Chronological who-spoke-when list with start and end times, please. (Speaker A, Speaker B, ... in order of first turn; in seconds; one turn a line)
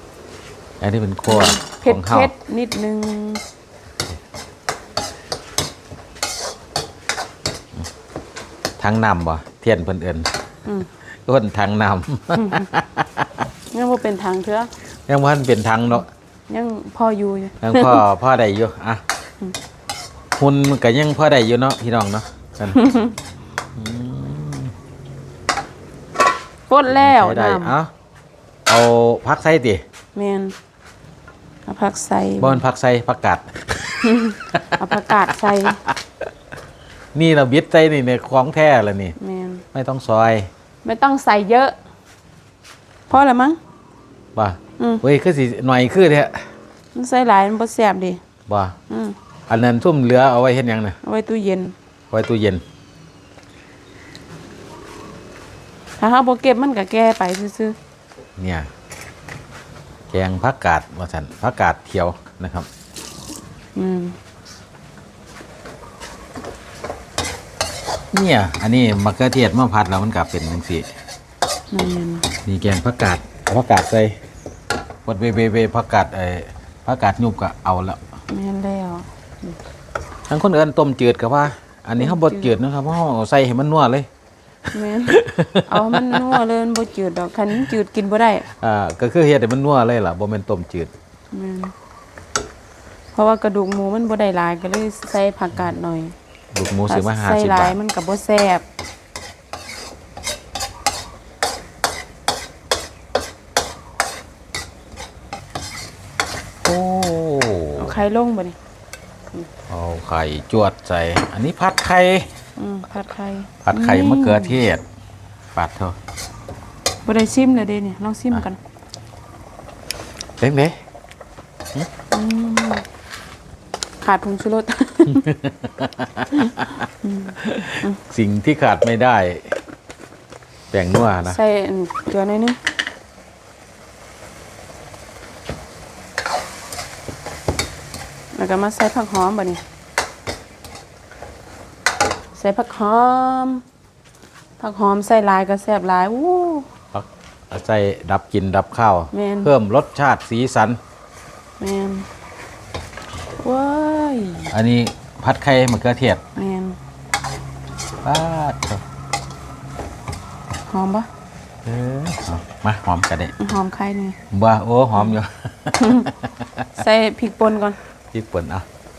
Speaker A: 0.8-2.3
Speaker B: 1.3-3.4
Speaker A: 8.8-10.3
Speaker A: 11.3-13.3
Speaker B: 12.4-12.7
Speaker B: 13.7-14.7
Speaker A: 15.1-16.1
Speaker B: 16.5-18.0
Speaker A: 17.6-19.0
Speaker A: 20.4-22.8
Speaker B: 22.8-23.1
Speaker A: 23.8-24.7
Speaker B: 26.7-27.8
Speaker A: 26.9-27.9
Speaker A: 28.7-29.8
Speaker B: 30.1-30.6
Speaker B: 31.7-32.6
Speaker A: 32.4-33.5
Speaker B: 34.0-35.8
Speaker A: 37.1-39.2
Speaker B: 39.2-39.6
Speaker A: 39.7-40.5
Speaker B: 40.8-41.8
Speaker B: 43.1-43.6
Speaker A: 44.4-46.5
Speaker B: 47.0-48.2
Speaker A: 48.5-48.8
Speaker B: 48.9-49.2
Speaker A: 49.5-51.0
Speaker B: 51.0-51.8
Speaker A: 52.1-52.6
Speaker B: 56.0-57.8
Speaker A: 58.4-58.7
Speaker A: 60.1-62.7
Speaker B: 63.8-64.2
Speaker A: 68.1-70.9
Speaker B: 71.7-72.3
Speaker A: 72.5-74.2
Speaker A: 75.0-78.0
Speaker B: 78.3-79.5
Speaker A: 80.3-84.1
Speaker B: 82.0-82.6
Speaker B: 84.7-88.5
Speaker A: 85.1-86.3
Speaker A: 88.5-90.9
Speaker B: 91.3-91.7
Speaker B: 93.1-96.2
Speaker A: 96.5-97.8
Speaker B: 96.9-98.7
Speaker A: 106.6-108.0
Speaker B: 107.8-108.6
Speaker A: 109.7-112.3
Speaker B: 112.6-114.6
Speaker A: 113.7-114.8
Speaker A: 115.5-116.0
Speaker B: 117.0-118.6
Speaker A: 120.4-120.8
Speaker B: 122.1-122.8
Speaker B: 124.0-125.2
Speaker A: 125.1-126.5
Speaker B: 126.5-128.0
Speaker A: 127.4-129.5
Speaker A: 130.7-131.4
Speaker B: 131.3-132.6
Speaker B: 138.3-139.6
Speaker B: 142.3-143.6
Speaker B: 144.6-146.7
Speaker A: 146.9-150.8
Speaker B: 149.1-149.5
Speaker B: 151.6-152.1
Speaker B: 153.4-154.5
Speaker A: 154.5-156.2
Speaker B: 156.4-156.8
Speaker A: 158.0-158.8
Speaker B: 160.7-161.1
Speaker A: 161.7-163.3
Speaker B: 163.4-164.2
Speaker A: 164.3-166.5
Speaker B: 165.8-166.1
Speaker B: 166.8-167.8
Speaker A: 168.1-168.7